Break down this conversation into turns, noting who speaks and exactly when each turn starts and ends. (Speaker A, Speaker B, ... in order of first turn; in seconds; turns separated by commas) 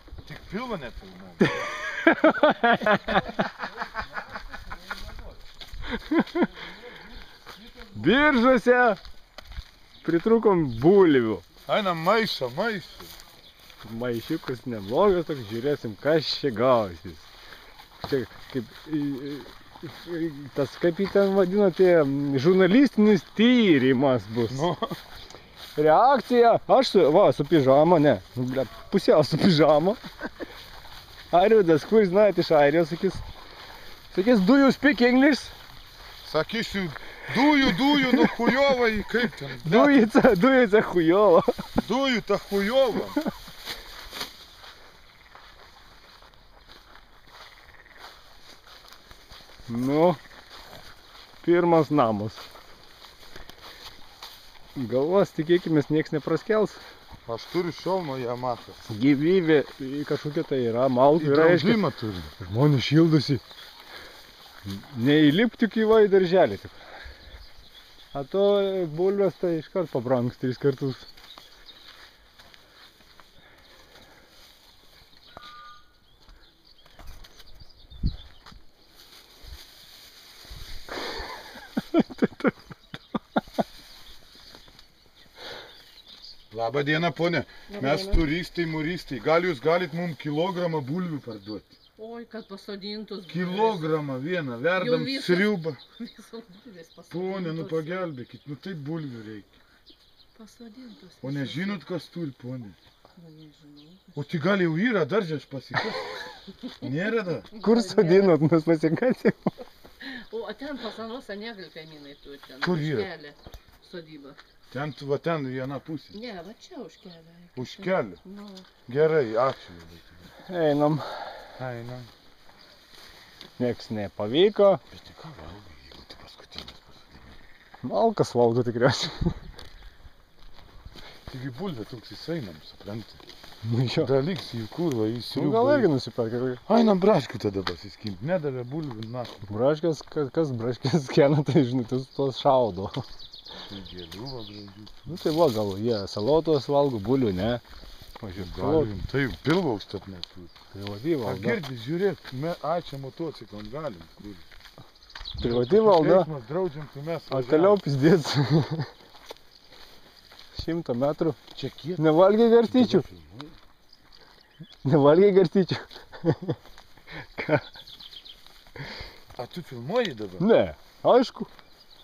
Speaker A: 0.2-1.7, Speaker B: 1.5-3.3, Speaker B: 5.9-6.5, Speaker B: 7.8-9.0, Speaker B: 10.0-11.4, Speaker A: 11.7-13.1, Speaker B: 13.8-17.2, Speaker B: 18.0-24.7, Speaker A: 24.5-25.0, Speaker B: 25.8-30.0, Speaker B: 31.3-33.2, Speaker B: 34.1-35.5, Speaker A: 36.2-40.1, Speaker B: 37.6-38.3, Speaker B: 39.6-41.5, Speaker A: 41.8-43.2, Speaker B: 49.7-50.2, Speaker B: 51.4-52.4, Speaker B: 54.7-56.8, Speaker A: 57.2-58.8, Speaker B: 58.9-61.8, Speaker A: 61.2-62.3, Speaker B: 62.4-63.4, Speaker B: 64.7-66.8, Speaker B: 68.1-71.1, Speaker B: 81.8-82.6, Speaker A: 86.5-91.8, Speaker C: 87.7-88.2, Speaker C: 92.0-93.9, Speaker A: 93.3-95.8, Speaker C: 94.7-98.1, Speaker A: 97.1-99.6, Speaker C: 100.3-101.8, Speaker A: 101.2-102.8, Speaker C: 103.1-104.2, Speaker A: 104.2-106.2, Speaker A: 106.8-107.5, Speaker C: 107.5-108.4, Speaker B: 107.6-109.5, Speaker C: 110.0-114.4, Speaker A: 112.6-113.1, Speaker A: 114.7-116.1, Speaker C: 116.1-118.7, Speaker A: 117.5-118.2, Speaker A: 118.8-120.3, Speaker B: 120.5-121.1, Speaker A: 121.6-122.1, Speaker B: 123.6-124.8, Speaker A: 124.9-127.4, Speaker B: 127.8-129.4, Speaker A: 131.3-133.2, Speaker B: 133.6-134.1, Speaker A: 134.0-135.9, Speaker B: 135.3-136.6, Speaker A: 136.7-139.5, Speaker B: 139.4-143.0, Speaker A: 143.7-145.4, Speaker B: 145.1-147.6, Speaker B: 148.2-148.9, Speaker A: 148.3-150.5, Speaker B: 150.7-151.6, Speaker A: 151.2-154.4, Speaker B: 155.4-156.3, Speaker A: 155.4-157.8, Speaker B: 157.3-158.9, Speaker B: 160.5-161.4, Speaker A: 161.5-162.1, Speaker B: 162.0-163.0, Speaker A: 162.6-163.5, Speaker B: 164.8-166.6, Speaker B: 167.2-167.7, Speaker A: 169.3-170.5, Speaker B: 170.4-171.5